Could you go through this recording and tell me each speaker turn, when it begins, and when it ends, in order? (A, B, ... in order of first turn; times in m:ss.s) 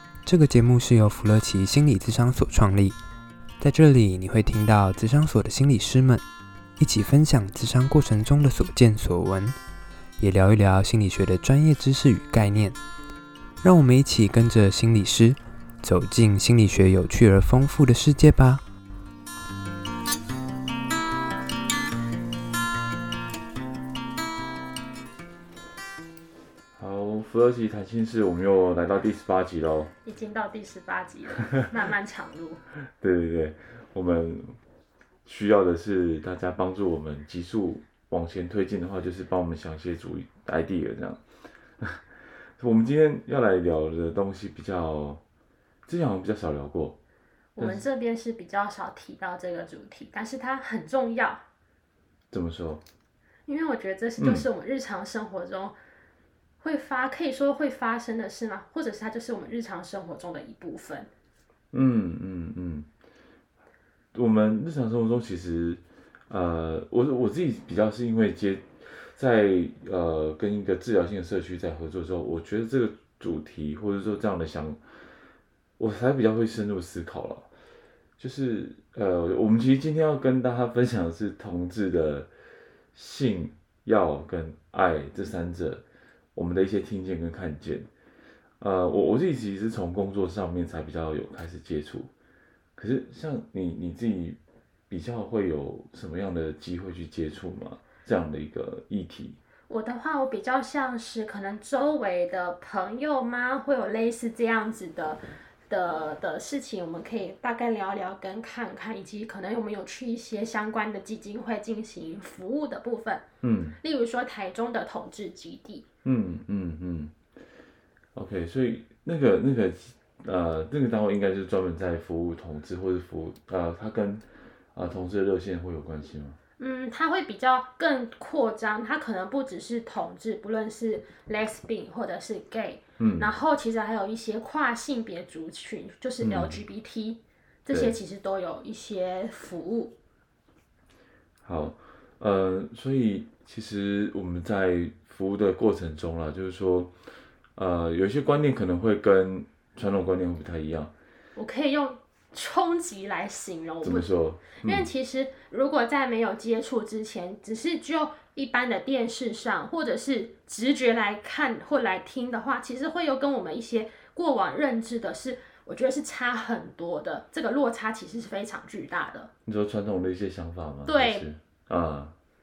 0:00.2-0:03.0 A
0:03.6-0:06.2 A
0:06.8-0:09.6 A
0:10.2-0:12.8 A
0:13.6-0:18.6 A
0:26.8-0:29.9 B
0:30.0-0:32.6 C
0:33.0-0:34.6 B
0:35.2-0:41.2 B
0:42.6-0:45.2 B
0:45.9-0:47.0 B
0:47.5-0:51.4 C
0:47.6-0:47.8 B
0:52.3-0:52.8 B
0:53.4-0:55.8 C
0:54.2-0:54.4 B
0:56.6-1:01.1 C
1:01.7-1:02.9 B
1:04.1-1:14.8 B
1:15.8-1:17.5 B
1:18.2-1:22.3 B
1:22.9-1:25.8 B
1:26.3-1:27.9 B
1:28.6-1:32.1 B
1:32.8-1:34.4 B
1:34.9-1:39.4 B
1:39.7-1:53.2 C
1:53.4-1:53.8 B
1:53.8-1:55.8 C
1:56.0-1:57.1 B
1:58.1-2:06.4 B
2:06.6-2:20.0 C
2:13.0-2:13.3 B
2:16.2-2:16.6 B
2:17.7-2:17.9 B
2:21.4-2:26.9 B
2:27.6-2:30.9 B
2:31.4-2:49.3 C
2:33.8-2:34.9 B
2:49.4-2:52.1 B
2:50.8-2:51.3 C